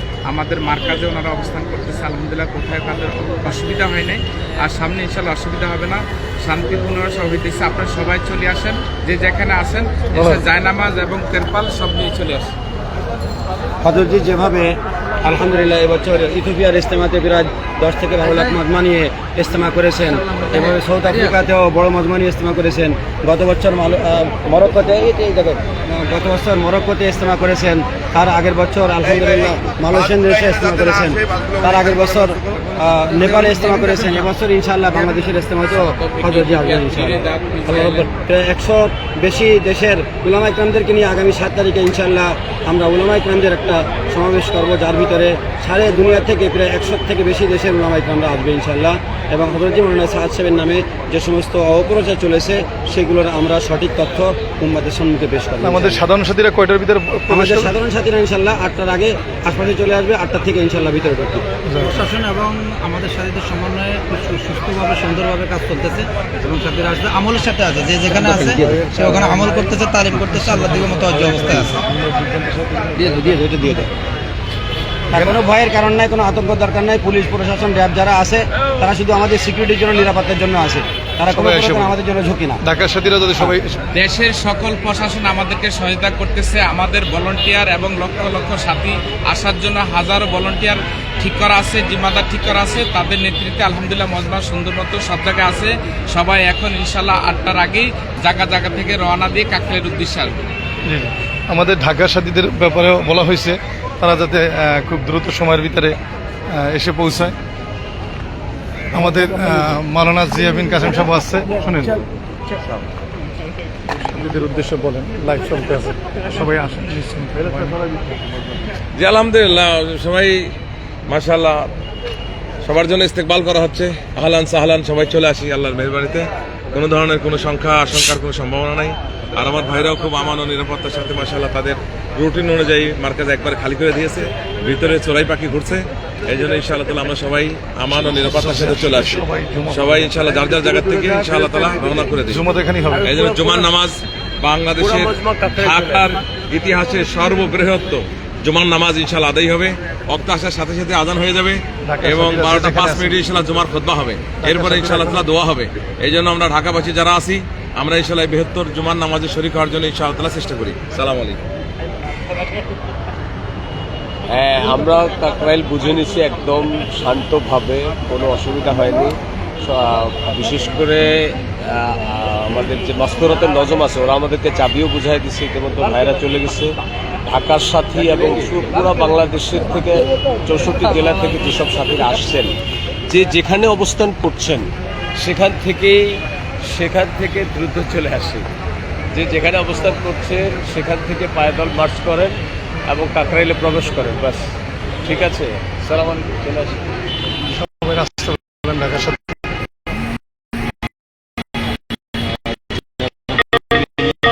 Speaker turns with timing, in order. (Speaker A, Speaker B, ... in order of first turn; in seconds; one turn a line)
Speaker A: 0.3-12.5
Speaker B: 10.1-10.4
Speaker C: 13.8-56.0
Speaker A: 35.8-38.1
Speaker B: 55.6-57.7
Speaker C: 57.3-61.5
Speaker B: 61.6-62.1
Speaker D: 61.8-71.8
Speaker C: 68.1-68.9
Speaker B: 68.6-69.6
Speaker B: 70.2-73.2
Speaker D: 73.0-73.8
Speaker C: 73.3-73.9
Speaker C: 75.1-82.6
Speaker B: 81.3-82.0
Speaker B: 82.6-83.8
Speaker A: 83.9-100.5
Speaker B: 100.8-106.0
Speaker B: 106.5-107.4
Speaker B: 108.9-112.0
Speaker B: 114.0-117.8
Speaker E: 118.9-120.5
Speaker E: 121.1-121.7
Speaker E: 122.6-142.5
Speaker B: 137.9-140.2
Speaker F: 140.8-142.0
Speaker B: 142.2-143.2
Speaker F: 143.0-143.7
Speaker E: 143.0-161.4
Speaker F: 144.8-146.2
Speaker B: 151.8-153.2
Speaker B: 154.4-155.3
Speaker F: 164.3-169.1
Speaker F: 169.6-176.7
Speaker F: 177.2-182.5
Speaker F: 183.1-188.4
Speaker F: 189.1-194.4
Speaker F: 195.1-196.8
Speaker B: 197.5-199.4